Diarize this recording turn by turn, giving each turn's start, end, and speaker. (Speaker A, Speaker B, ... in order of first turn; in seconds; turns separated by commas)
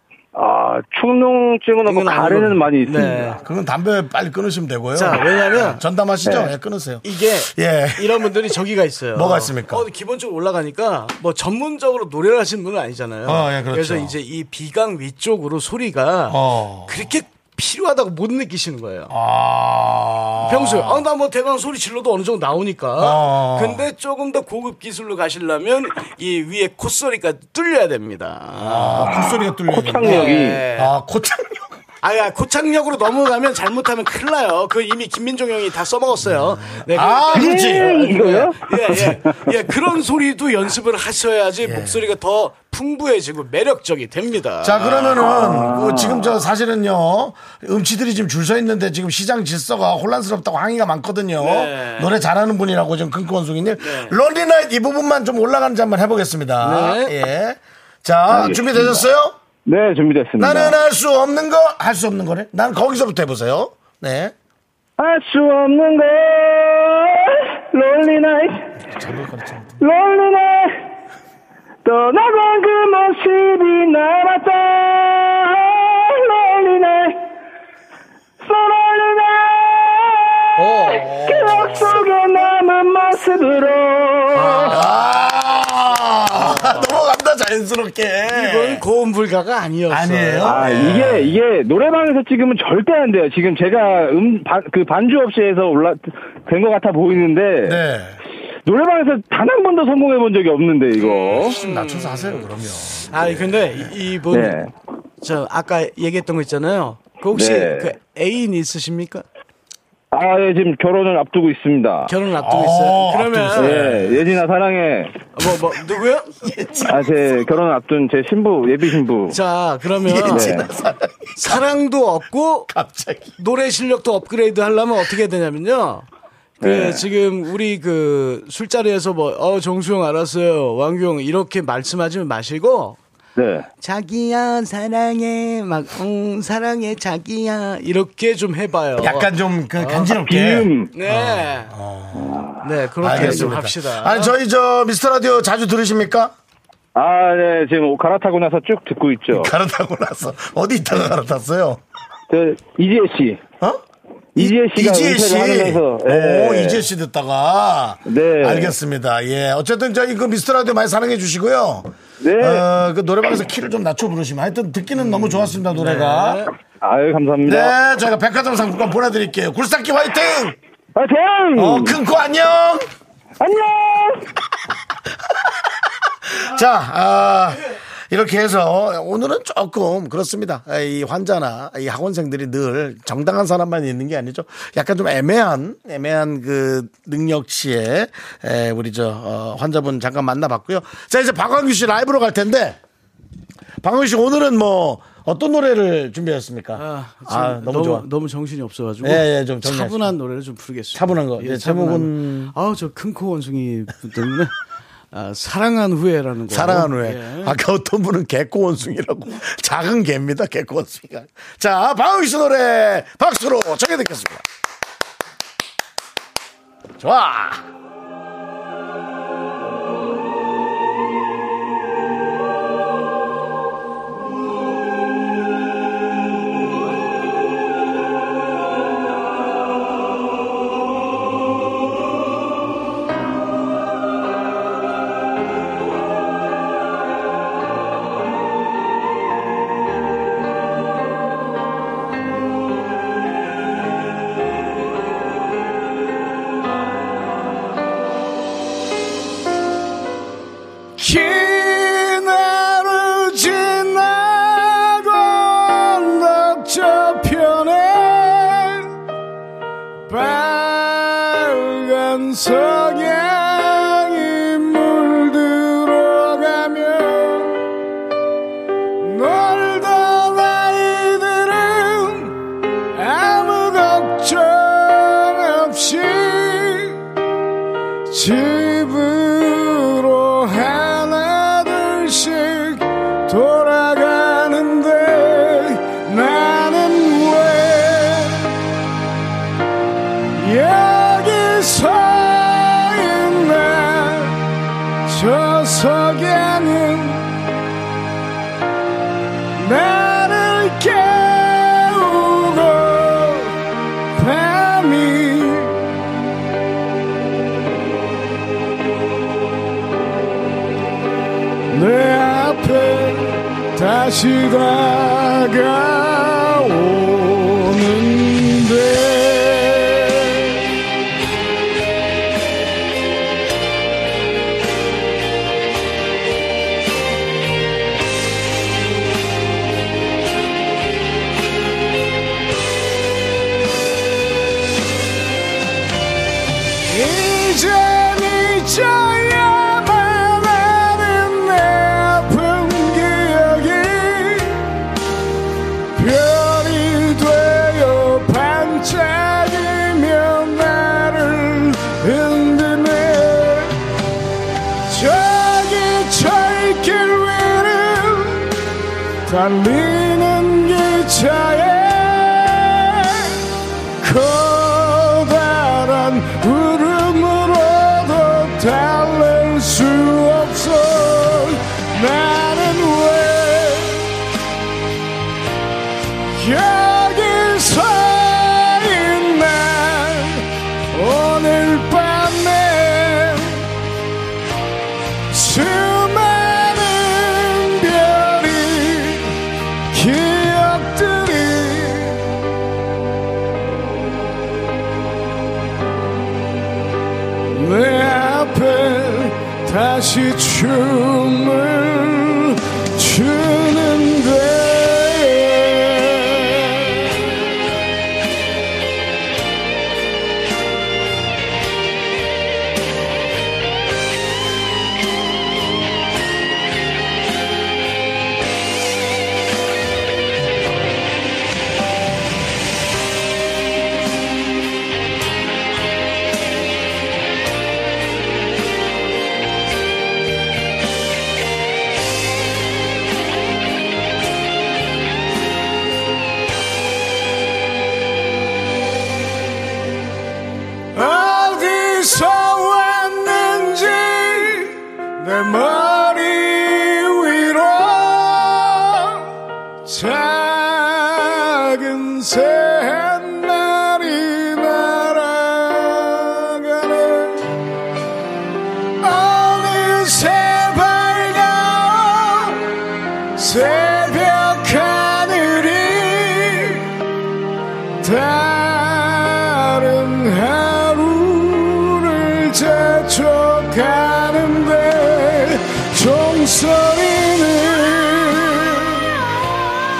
Speaker A: 0.3-3.4, Speaker B: 1.9-3.4, Speaker C: 3.4-8.2, Speaker B: 4.9-6.5, Speaker B: 7.0-19.1, Speaker C: 9.1-9.8, Speaker C: 13.2-14.1, Speaker C: 16.3-17.0, Speaker C: 19.1-21.0, Speaker B: 20.4-29.1, Speaker C: 23.0-23.8, Speaker C: 28.6-31.8, Speaker A: 29.0-30.6, Speaker B: 30.0-30.9, Speaker B: 32.0-45.2, Speaker C: 36.3-38.1, Speaker A: 37.3-38.6, Speaker C: 41.6-42.0, Speaker C: 44.6-59.4, Speaker A: 45.2-46.3, Speaker B: 51.4-52.1, Speaker B: 53.8-54.1, Speaker B: 56.6-57.1, Speaker A: 58.3-59.0, Speaker A: 59.6-60.8, Speaker C: 60.4-64.3, Speaker A: 65.0-68.7, Speaker C: 68.8-69.8, Speaker A: 69.8-70.7, Speaker A: 71.8-77.2, Speaker A: 78.4-84.8, Speaker B: 80.6-81.1, Speaker C: 81.0-82.0, Speaker B: 84.3-84.9, Speaker C: 84.6-88.8, Speaker B: 86.4-86.9, Speaker B: 88.3-90.6, Speaker C: 89.9-91.4, Speaker A: 90.4-97.8, Speaker C: 97.6-98.2, Speaker A: 98.7-101.5, Speaker B: 101.0-102.5, Speaker C: 101.3-103.9, Speaker B: 103.1-104.6, Speaker A: 104.3-104.7, Speaker B: 105.2-109.2, Speaker A: 107.3-107.9, Speaker A: 110.1-112.1, Speaker B: 112.1-113.8, Speaker C: 112.4-114.2, Speaker A: 113.6-115.2, Speaker B: 115.3-116.3, Speaker C: 116.4-117.4, Speaker A: 116.9-119.4, Speaker B: 119.3-120.5, Speaker C: 120.0-121.6, Speaker A: 120.3-120.7, Speaker B: 121.3-122.7, Speaker C: 122.7-123.3, Speaker B: 123.4-126.1, Speaker A: 126.6-127.0, Speaker B: 126.6-133.0, Speaker A: 133.3-133.7, Speaker B: 133.8-140.2, Speaker C: 139.0-142.5, Speaker A: 140.2-140.9, Speaker B: 140.9-141.7, Speaker A: 142.1-143.5, Speaker B: 142.6-144.3, Speaker C: 143.0-146.3, Speaker A: 146.9-149.5, Speaker C: 149.3-151.8, Speaker A: 152.3-153.4, Speaker A: 154.3-156.8, Speaker C: 154.4-166.4, Speaker A: 158.1-158.7, Speaker A: 162.2-162.7, Speaker B: 164.9-166.5, Speaker A: 166.8-167.7, Speaker C: 167.4-170.6, Speaker A: 170.9-172.0, Speaker C: 171.6-172.8, Speaker A: 173.4-174.3, Speaker C: 176.2-192.8, Speaker C: 193.8-198.1, Speaker B: 196.7-204.5, Speaker C: 199.0-200.1, Speaker C: 200.9-202.5, Speaker B: 205.1-207.6, Speaker C: 206.5-214.4, Speaker C: 217.0-217.6, Speaker B: 251.0-258.9, Speaker B: 260.1-267.6, Speaker B: 269.0-272.4, Speaker B: 272.9-277.0, Speaker B: 278.1-288.5, Speaker B: 290.3-294.4, Speaker B: 295.0-297.4, Speaker B: 299.6-303.5, Speaker B: 304.1-305.8, Speaker B: 311.7-320.5, Speaker B: 336.8-344.8, Speaker B: 345.9-353.8, Speaker B: 354.9-358.5, Speaker B: 359.2-363.4, Speaker B: 364.0-374.1, Speaker B: 376.3-383.6, Speaker B: 385.3-389.3, Speaker B: 389.9-392.2, Speaker B: 397.5-406.9, Speaker B: 440.9-449.3, Speaker B: 449.8-457.4, Speaker B: 459.0-462.7, Speaker B: 463.4-466.9, Speaker B: 468.0-479.1